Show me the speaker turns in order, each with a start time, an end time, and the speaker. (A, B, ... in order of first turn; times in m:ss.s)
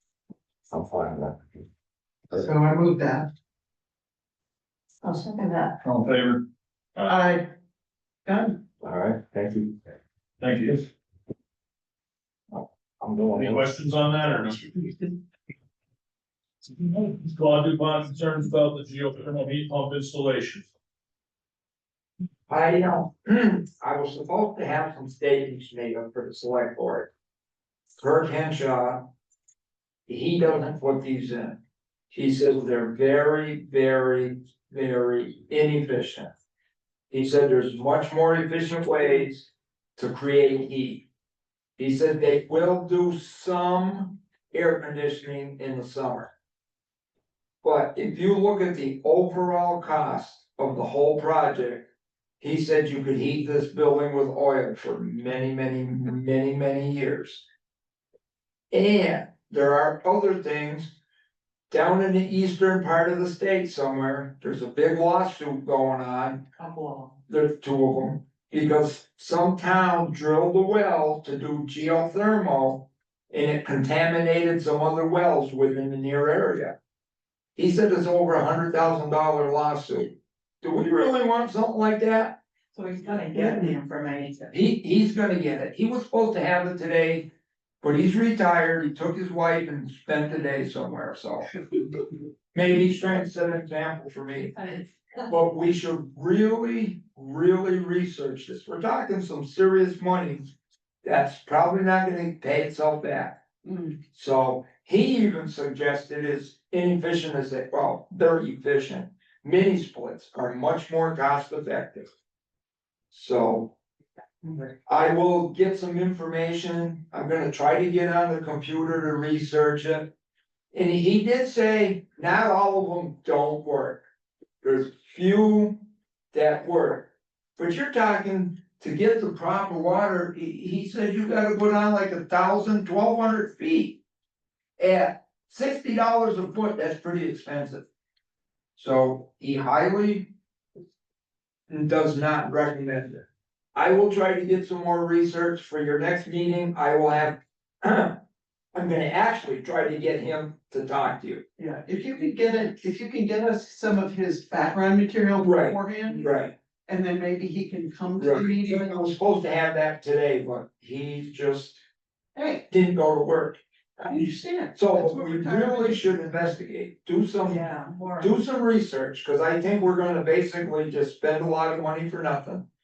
0:00.7-0:01.7 A
0:02.4-0:03.3 B
0:05.0-0:05.8 B
0:05.8-0:06.4 C
0:07.1-0:07.5 B
0:08.3-0:08.6 B
0:08.8-0:09.9 A
0:10.4-0:10.9 C
0:12.5-0:13.7 A
0:13.3-0:14.8 C
0:16.7-0:20.7 C
0:22.5-0:27.1 D
0:28.0-0:29.1 D
0:30.1-0:31.6 D
0:32.1-0:36.3 D
0:37.1-0:41.1 D
0:41.8-0:46.3 D
0:47.6-0:51.9 D
0:52.4-0:57.4 D
0:58.7-1:01.0 D
1:01.7-1:06.5 D
1:06.6-1:07.1 E
1:07.3-1:16.8 D
1:17.6-1:22.4 D
1:22.7-1:24.5 E
1:23.3-1:23.7 B
1:24.5-1:27.3 D
1:27.8-1:31.5 D
1:32.5-1:40.5 D
1:41.0-1:43.4 D
1:43.6-1:44.0 B
1:44.1-1:52.1 D
1:53.1-1:53.7 D
1:54.9-2:00.1 D
2:00.7-2:04.0 D
2:04.6-2:14.0 D
2:14.8-2:17.8 D
2:18.8-2:20.3 D
2:21.7-2:23.2 D
2:23.8-2:28.2 D
2:28.7-2:31.4 D
2:31.6-2:36.3 B
2:35.4-2:36.5 D
2:36.9-2:39.0 B
2:38.2-2:41.8 D
2:42.4-2:42.6 B
2:42.7-2:44.1 D
2:44.1-2:46.2 B
2:44.8-2:52.7 D
2:47.4-2:48.3 E